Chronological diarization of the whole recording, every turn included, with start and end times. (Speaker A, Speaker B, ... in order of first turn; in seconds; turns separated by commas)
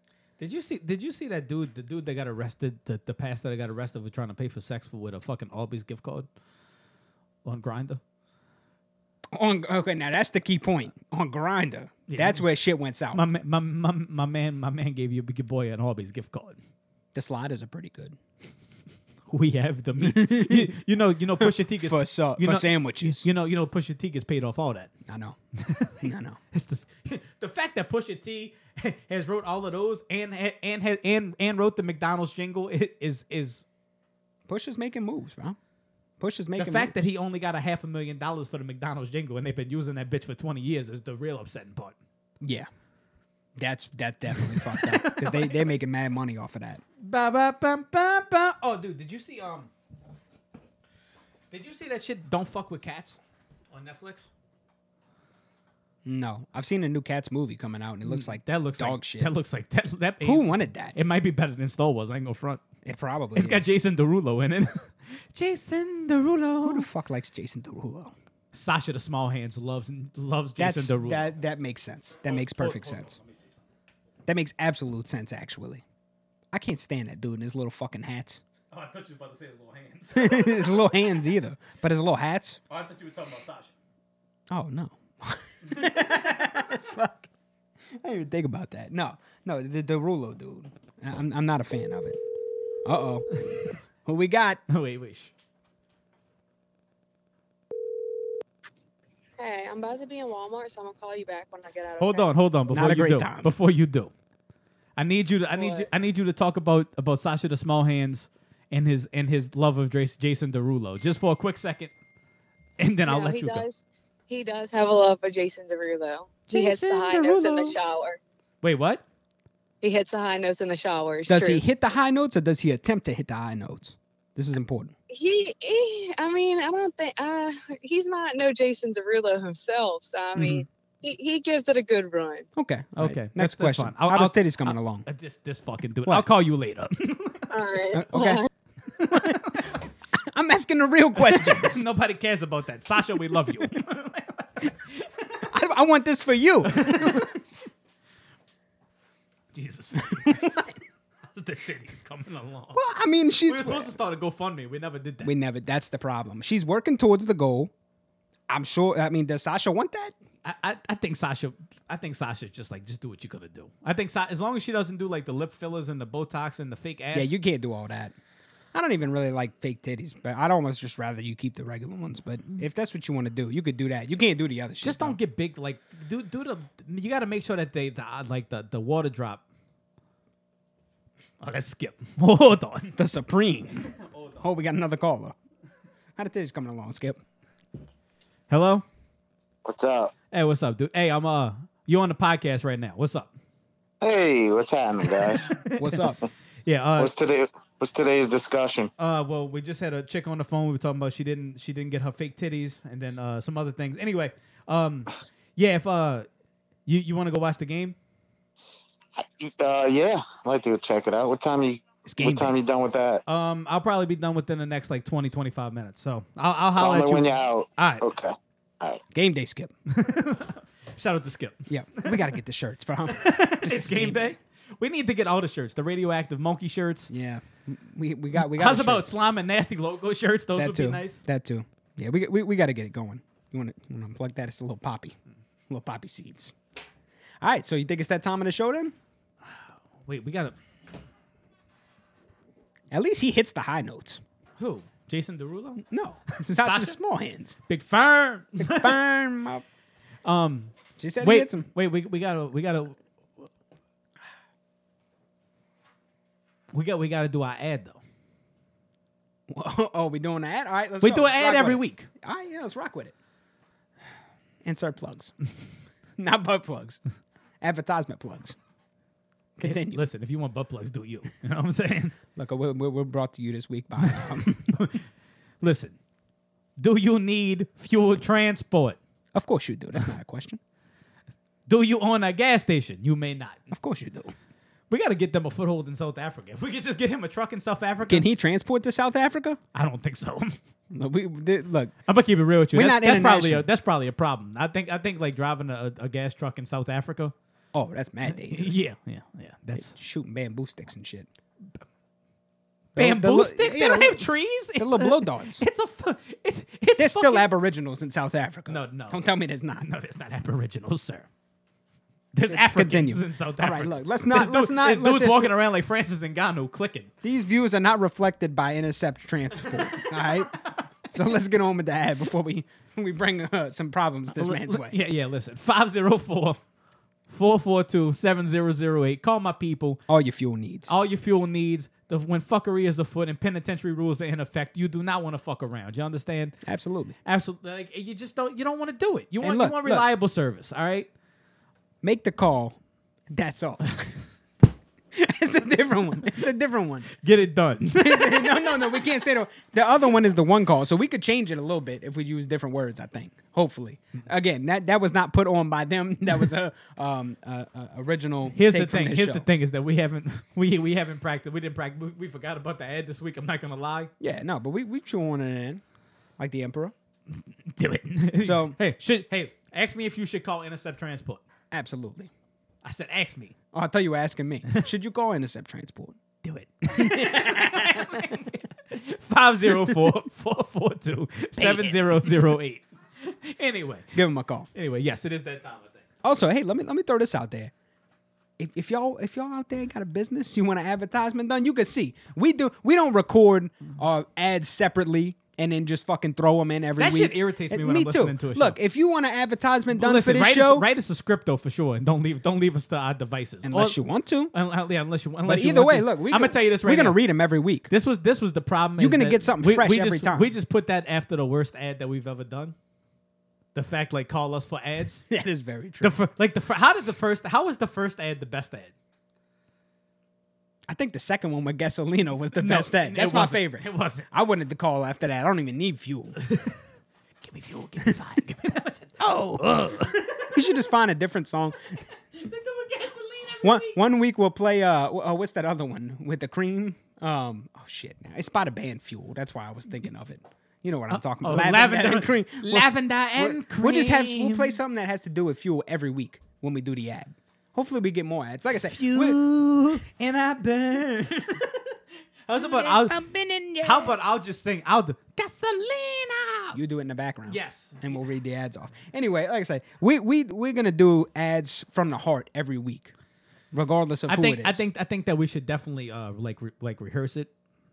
Speaker A: 0.4-6.3, Speaker A: 7.4-8.0, Speaker B: 9.3-13.2, Speaker A: 12.1-12.4, Speaker A: 13.1-16.6, Speaker B: 17.1-18.2, Speaker A: 19.3-24.9, Speaker B: 20.0-20.8, Speaker B: 21.4-23.3, Speaker B: 25.1-25.4, Speaker A: 25.6-33.6, Speaker B: 26.0-26.4, Speaker B: 34.5-35.6, Speaker B: 36.2-37.0, Speaker A: 36.6-41.9, Speaker B: 42.4-42.7, Speaker B: 43.6-46.8, Speaker A: 44.5-45.7, Speaker A: 47.0-49.7, Speaker A: 51.5-53.2, Speaker A: 53.7-54.3, Speaker B: 56.0-59.3, Speaker A: 58.0-62.6, Speaker B: 60.2-61.0, Speaker B: 62.8-63.7, Speaker A: 63.3-66.9, Speaker B: 66.6-68.1, Speaker A: 68.5-71.3, Speaker B: 70.6-73.2, Speaker A: 72.2-73.6, Speaker B: 74.2-75.8, Speaker B: 76.5-78.4, Speaker A: 78.7-80.9, Speaker B: 80.2-82.6, Speaker A: 82.7-83.7, Speaker B: 84.5-87.3, Speaker A: 85.7-86.1, Speaker B: 87.9-92.2, Speaker B: 92.8-94.6, Speaker A: 94.7-95.3, Speaker C: 99.4-102.3, Speaker A: 102.0-104.1, Speaker B: 102.7-103.5, Speaker A: 105.0-111.9, Speaker C: 105.5-105.9, Speaker A: 112.8-113.7, Speaker C: 113.0-118.2, Speaker A: 116.5-117.8, Speaker A: 118.6-119.0, Speaker C: 119.8-121.6, Speaker B: 121.3-124.9, Speaker C: 125.1-132.4, Speaker B: 130.3-130.7, Speaker B: 132.6-135.1, Speaker A: 133.0-137.5, Speaker B: 136.1-136.3, Speaker C: 137.5-138.5, Speaker B: 137.9-138.4, Speaker B: 138.9-141.8, Speaker A: 141.2-145.4, Speaker B: 145.5-147.3, Speaker A: 146.7-147.4, Speaker A: 149.5-150.7, Speaker B: 150.1-150.7, Speaker A: 151.3-152.8, Speaker B: 152.7-154.0, Speaker A: 153.4-155.3, Speaker B: 155.2-157.7, Speaker B: 158.5-160.1, Speaker A: 160.4-167.4, Speaker B: 167.1-168.2, Speaker B: 168.7-175.2, Speaker A: 174.8-179.4, Speaker A: 181.4-183.0, Speaker B: 182.9-185.3, Speaker A: 183.9-184.4, Speaker B: 186.2-187.2, Speaker A: 188.5-188.8, Speaker D: 189.6-190.1, Speaker A: 190.3-193.3, Speaker D: 194.0-195.5, Speaker A: 195.4-196.1, Speaker B: 195.8-196.2, Speaker A: 196.7-197.1, Speaker D: 197.0-198.9, Speaker A: 199.0-206.3, Speaker A: 206.8-207.9, Speaker D: 209.2-213.2, Speaker B: 212.1-212.6, Speaker A: 213.2-218.0, Speaker D: 216.8-219.0, Speaker B: 219.1-219.7, Speaker A: 219.9-222.3, Speaker B: 221.7-224.3, Speaker A: 223.1-227.1, Speaker B: 227.1-229.1, Speaker A: 228.3-231.2, Speaker B: 230.5-235.2, Speaker B: 235.7-236.5, Speaker B: 237.4-238.9, Speaker A: 239.5-240.6, Speaker B: 242.9-244.2, Speaker A: 244.6-245.8, Speaker B: 245.8-247.6, Speaker A: 246.4-246.9, Speaker A: 247.7-249.0, Speaker B: 248.6-249.6, Speaker A: 250.2-253.0, Speaker B: 251.0-251.7, Speaker A: 256.7-258.0, Speaker B: 259.5-263.1, Speaker A: 261.0-262.1, Speaker B: 264.6-265.3, Speaker B: 266.2-267.0, Speaker B: 267.6-268.6, Speaker B: 269.6-270.0, Speaker A: 269.6-272.1, Speaker B: 272.4-274.8, Speaker A: 274.2-275.0, Speaker A: 275.6-275.9, Speaker A: 276.8-279.0, Speaker B: 279.3-280.6, Speaker A: 281.7-283.6, Speaker B: 283.7-284.3, Speaker A: 284.9-288.2, Speaker B: 288.1-289.6, Speaker A: 289.7-290.6, Speaker B: 290.9-291.9, Speaker A: 292.1-297.3, Speaker B: 292.7-293.6, Speaker B: 297.7-298.8, Speaker A: 298.2-299.9, Speaker B: 299.7-301.3, Speaker B: 302.9-305.6, Speaker A: 303.0-307.5, Speaker B: 307.0-309.9, Speaker A: 308.7-309.3, Speaker A: 309.8-311.3, Speaker A: 312.3-317.1, Speaker B: 312.5-315.6, Speaker B: 317.2-325.0, Speaker A: 319.9-320.2, Speaker A: 324.4-326.6, Speaker A: 327.3-330.0, Speaker B: 330.1-330.9, Speaker A: 330.9-336.6, Speaker B: 336.6-337.1, Speaker A: 337.2-341.1, Speaker B: 339.4-340.1, Speaker B: 342.0-342.8, Speaker B: 343.3-344.1, Speaker B: 345.1-347.1, Speaker A: 347.2-348.8, Speaker B: 347.9-359.5, Speaker A: 358.5-364.1, Speaker B: 364.2-365.8, Speaker B: 366.4-366.9, Speaker A: 367.7-371.4, Speaker B: 368.4-368.8, Speaker B: 371.7-372.3, Speaker A: 372.8-373.5, Speaker B: 373.7-376.2, Speaker A: 376.4-384.1, Speaker B: 376.9-378.4, Speaker B: 381.6-382.5, Speaker B: 384.1-384.7, Speaker A: 384.7-386.0, Speaker B: 386.2-387.7, Speaker B: 388.6-400.9, Speaker A: 397.0-398.8, Speaker A: 399.9-404.0, Speaker B: 403.6-404.5, Speaker A: 404.5-407.2, Speaker B: 405.4-407.9, Speaker A: 407.9-412.7, Speaker B: 409.0-410.5, Speaker A: 413.7-415.3, Speaker B: 415.3-416.2, Speaker A: 416.0-418.9, Speaker B: 420.9-426.4, Speaker A: 422.5-424.3, Speaker A: 426.4-426.8, Speaker A: 427.4-430.6, Speaker B: 429.2-432.0, Speaker A: 432.3-434.0, Speaker B: 433.6-449.4, Speaker A: 441.1-444.8, Speaker A: 448.8-451.8, Speaker A: 452.5-453.2, Speaker B: 452.6-454.1, Speaker A: 453.8-456.8, Speaker B: 456.7-463.1, Speaker A: 457.5-458.0, Speaker B: 463.7-464.9, Speaker A: 464.3-467.5